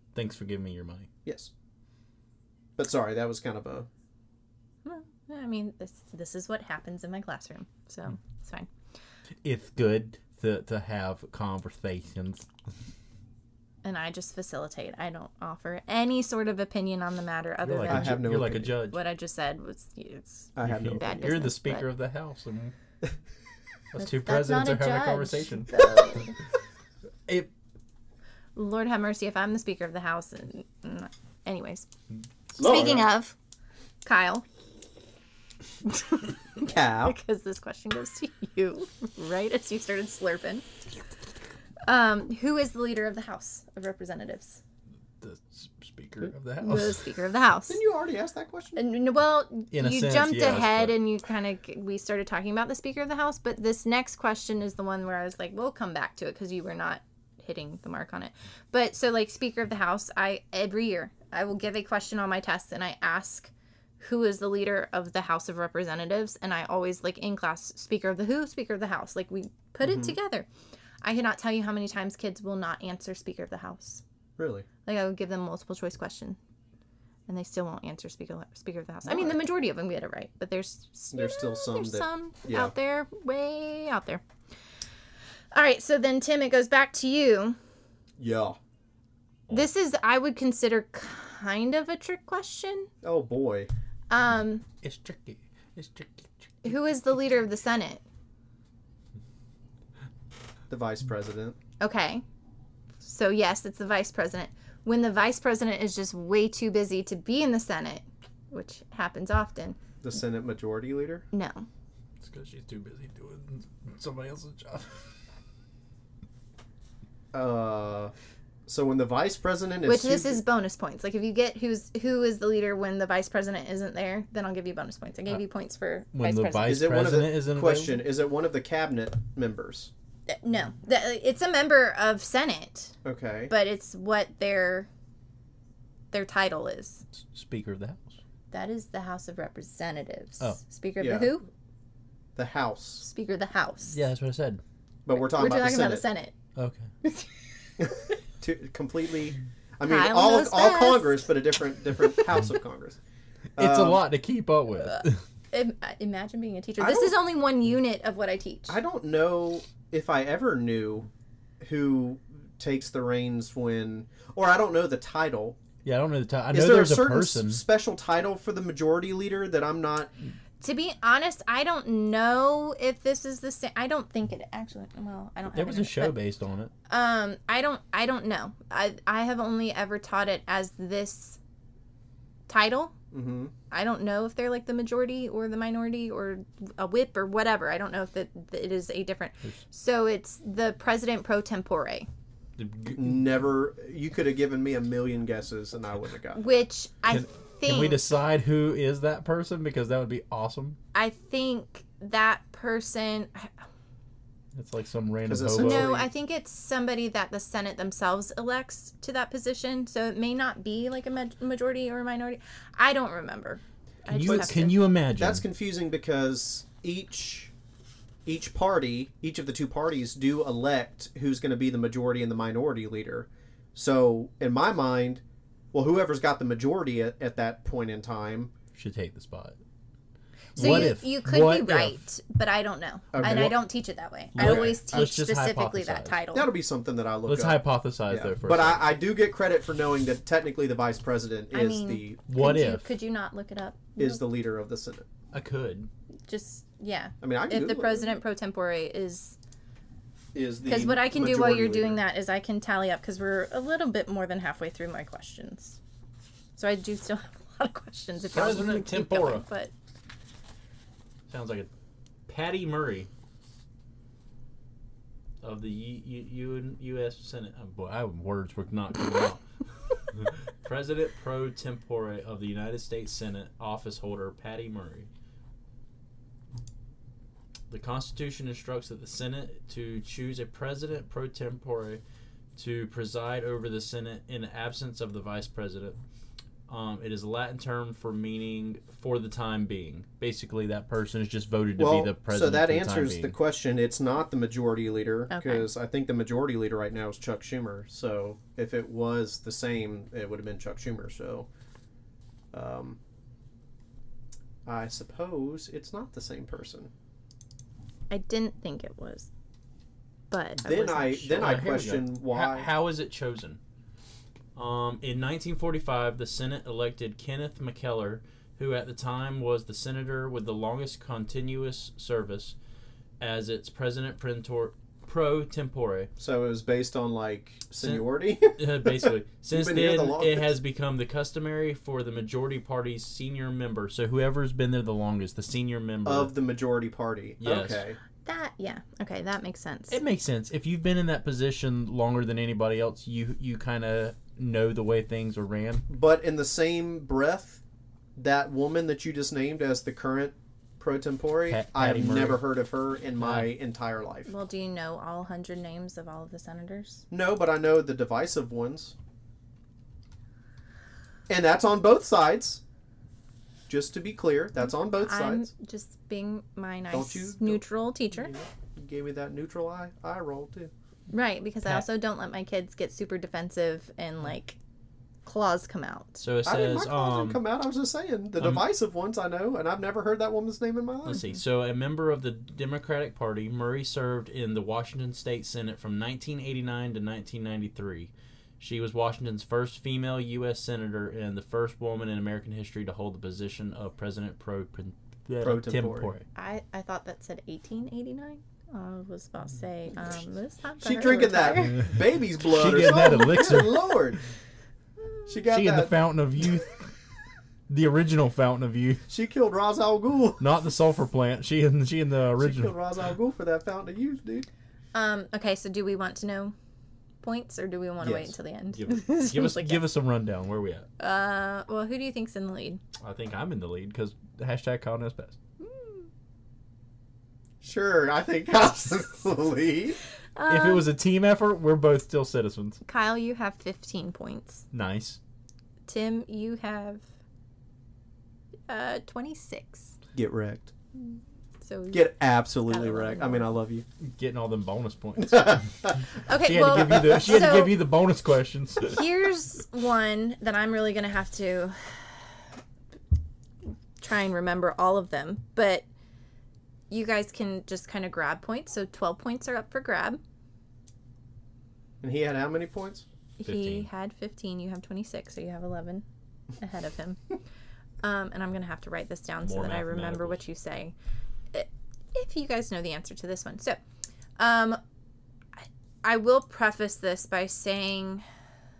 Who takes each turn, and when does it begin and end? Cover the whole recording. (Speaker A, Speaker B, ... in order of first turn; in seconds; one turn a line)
Speaker A: 0.1-1.1
Speaker B: 1.2-1.5
Speaker B: 2.8-3.9
Speaker C: 4.8-8.7
Speaker A: 9.4-12.5
Speaker C: 13.8-21.9
Speaker A: 17.6-19.0
Speaker B: 17.9-18.7
Speaker B: 20.6-21.3
Speaker A: 20.6-22.8
Speaker A: 23.9-26.3
Speaker C: 24.0-26.4
Speaker C: 28.6-31.9
Speaker C: 32.5-33.3
Speaker B: 32.6-33.1
Speaker C: 34.0-34.4
Speaker C: 35.9-40.6
Speaker B: 36.6-37.2
Speaker C: 41.9-44.6
Speaker A: 45.2-47.0
Speaker C: 46.6-47.8
Speaker B: 47.7-48.8
Speaker C: 48.8-70.5
Speaker A: 49.7-51.0
Speaker B: 69.8-70.2
Speaker C: 71.0-74.0
Speaker B: 74.4-74.7
Speaker C: 74.8-76.4
Speaker C: 77.3-84.2
Speaker B: 79.0-79.4
Speaker B: 81.1-82.7
Speaker C: 85.5-87.6
Speaker B: 88.2-88.6
Speaker C: 89.5-92.9
Speaker B: 93.0-93.7
Speaker C: 94.1-94.6
Speaker A: 94.8-96.3
Speaker C: 96.6-98.0
Speaker B: 100.7-101.6
Speaker C: 101.8-102.2
Speaker C: 103.0-109.8
Speaker B: 110.0-111.2
Speaker C: 111.3-111.7
Speaker A: 112.2-115.0
Speaker B: 117.3-118.1
Speaker B: 118.7-120.4
Speaker C: 119.8-126.8
Speaker A: 126.1-128.1
Speaker B: 126.7-129.9
Speaker C: 130.3-132.9
Speaker B: 133.0-133.5
Speaker C: 133.5-134.9
Speaker C: 136.1-137.0
Speaker A: 137.1-138.2
Speaker C: 138.5-141.5
Speaker B: 141.0-141.3
Speaker B: 142.4-143.1
Speaker C: 143.0-144.0
Speaker A: 143.9-144.6
Speaker B: 145.1-146.0
Speaker C: 145.2-146.3
Speaker A: 146.6-146.9
Speaker C: 147.0-147.4
Speaker B: 147.8-153.0
Speaker C: 149.8-151.3
Speaker B: 153.6-154.0
Speaker A: 153.6-155.2
Speaker C: 154.8-158.8
Speaker B: 156.8-157.2
Speaker B: 158.7-161.1
Speaker B: 161.6-165.6
Speaker A: 165.8-167.6
Speaker B: 166.5-170.1
Speaker C: 170.6-176.2
Speaker A: 175.5-176.7
Speaker C: 176.9-181.4
Speaker C: 182.5-182.9
Speaker B: 183.1-183.5
Speaker C: 183.7-192.1
Speaker A: 192.6-193.2
Speaker B: 192.9-196.4
Speaker C: 196.3-198.1
Speaker A: 197.1-200.8
Speaker C: 200.9-203.7
Speaker A: 204.6-206.0
Speaker B: 205.3-206.1
Speaker C: 205.6-214.8
Speaker A: 214.1-215.4
Speaker B: 214.2-217.5
Speaker B: 218.3-225.2
Speaker B: 225.7-228.5
Speaker A: 228.8-229.6
Speaker C: 230.6-236.5
Speaker B: 230.6-230.9
Speaker A: 230.6-232.0
Speaker B: 233.1-233.6
Speaker A: 233.2-233.5
Speaker A: 234.3-236.2
Speaker B: 234.4-235.0
Speaker B: 236.3-242.2
Speaker A: 237.3-238.8
Speaker C: 241.5-244.2
Speaker A: 242.3-242.9
Speaker B: 244.0-245.1
Speaker A: 245.3-245.9
Speaker C: 246.3-249.4
Speaker B: 247.2-248.1
Speaker B: 250.3-252.0
Speaker C: 250.7-255.8
Speaker C: 256.6-259.7
Speaker A: 258.3-259.5
Speaker A: 261.3-261.7
Speaker A: 262.3-263.1
Speaker A: 265.4-269.4
Speaker A: 270.1-275.1
Speaker A: 277.7-282.0
Speaker A: 282.6-286.0
Speaker A: 286.7-293.4
Speaker B: 291.8-301.5
Speaker C: 295.3-295.7
Speaker B: 302.5-303.0
Speaker B: 304.7-306.9
Speaker C: 308.1-309.3
Speaker C: 310.3-311.6
Speaker B: 310.6-312.7
Speaker A: 311.3-313.6
Speaker A: 314.6-322.6
Speaker A: 323.2-326.1
Speaker B: 326.2-330.5
Speaker A: 327.8-336.3
Speaker B: 336.1-338.0
Speaker A: 337.4-337.8
Speaker C: 338.2-340.0
Speaker A: 339.9-345.8
Speaker B: 345.9-347.6
Speaker B: 348.2-354.3
Speaker A: 351.5-352.4
Speaker A: 353.2-353.5
Speaker C: 354.3-357.1
Speaker B: 357.1-358.9
Speaker B: 361.3-362.6
Speaker B: 363.7-365.5
Speaker C: 364.6-368.3
Speaker B: 366.9-370.7
Speaker C: 371.1-374.6
Speaker C: 375.2-376.2
Speaker A: 376.2-377.4
Speaker B: 376.4-381.2
Speaker A: 378.4-378.6
Speaker A: 381.1-396.2
Speaker B: 395.4-396.1
Speaker C: 396.4-401.8
Speaker B: 400.8-404.2
Speaker A: 402.4-404.2
Speaker B: 405.3-405.9
Speaker A: 405.5-406.9
Speaker A: 407.7-409.0
Speaker B: 409.1-410.4
Speaker A: 410.4-412.8
Speaker B: 412.4-414.5
Speaker C: 414.9-416.5
Speaker C: 417.2-419.8
Speaker B: 418.0-418.3
Speaker A: 418.7-420.9
Speaker C: 421.0-422.8
Speaker A: 423.0-425.4
Speaker B: 427.6-430.0
Speaker C: 430.4-430.9
Speaker A: 430.5-432.8
Speaker C: 432.9-434.6
Speaker A: 434.7-435.2
Speaker C: 435.9-437.0
Speaker C: 438.7-439.9
Speaker B: 440.1-440.7
Speaker C: 441.0-442.1
Speaker B: 441.9-443.9
Speaker C: 442.7-443.6
Speaker A: 444.0-449.1
Speaker B: 445.2-445.9
Speaker C: 446.3-447.8
Speaker B: 446.8-447.4
Speaker C: 448.9-452.1
Speaker C: 454.0-455.9
Speaker C: 456.9-460.2
Speaker B: 462.0-463.1
Speaker C: 463.4-466.1
Speaker A: 463.4-463.9
Speaker C: 466.6-467.2
Speaker C: 468.0-470.9
Speaker A: 469.4-470.4
Speaker C: 471.5-473.8
Speaker C: 474.4-474.8
Speaker C: 475.6-478.2